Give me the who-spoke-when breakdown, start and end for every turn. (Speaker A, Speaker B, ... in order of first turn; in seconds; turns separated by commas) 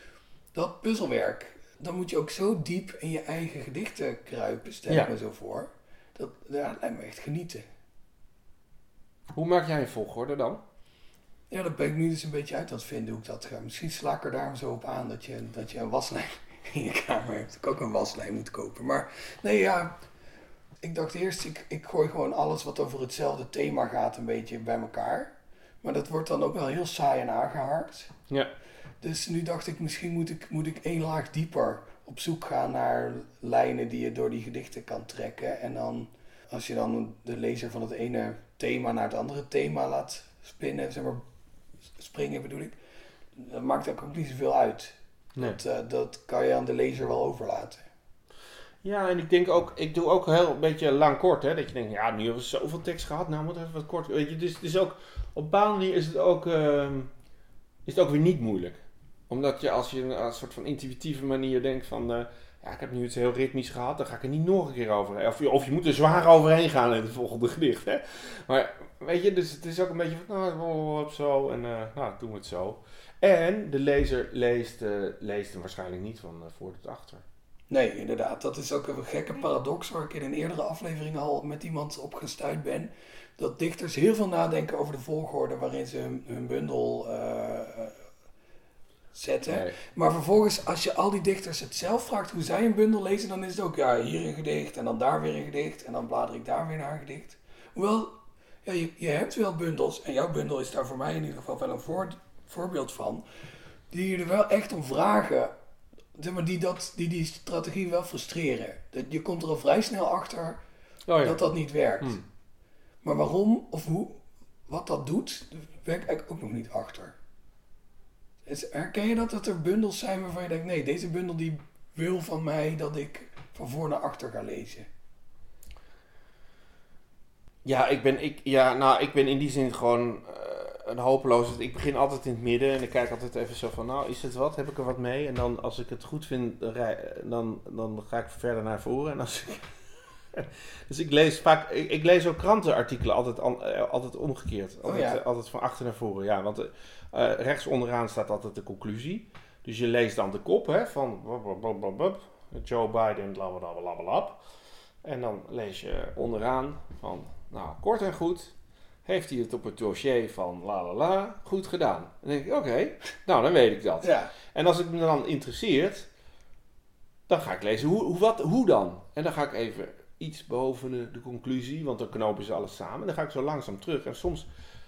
Speaker A: 0.5-7.7, Speaker B: 9.3-10.6, Speaker A: 11.5-20.0, Speaker A: 20.8-28.1, Speaker A: 29.0-41.2, Speaker A: 42.0-42.8, Speaker A: 43.4-47.8, Speaker B: 48.8-57.1, Speaker B: 57.9-77.2, Speaker A: 77.7-88.0, Speaker A: 89.1-103.2, Speaker B: 89.5-89.7, Speaker A: 103.9-105.5, Speaker A: 106.2-110.6, Speaker B: 111.1-111.4, Speaker A: 111.2-112.2, Speaker A: 113.0-117.2, Speaker A: 118.5-124.9, Speaker B: 127.6-139.7, Speaker B: 140.3-154.4, Speaker A: 144.8-145.2, Speaker B: 155.0-158.5, Speaker B: 159.1-166.1, Speaker A: 164.0-164.3, Speaker B: 167.3-174.5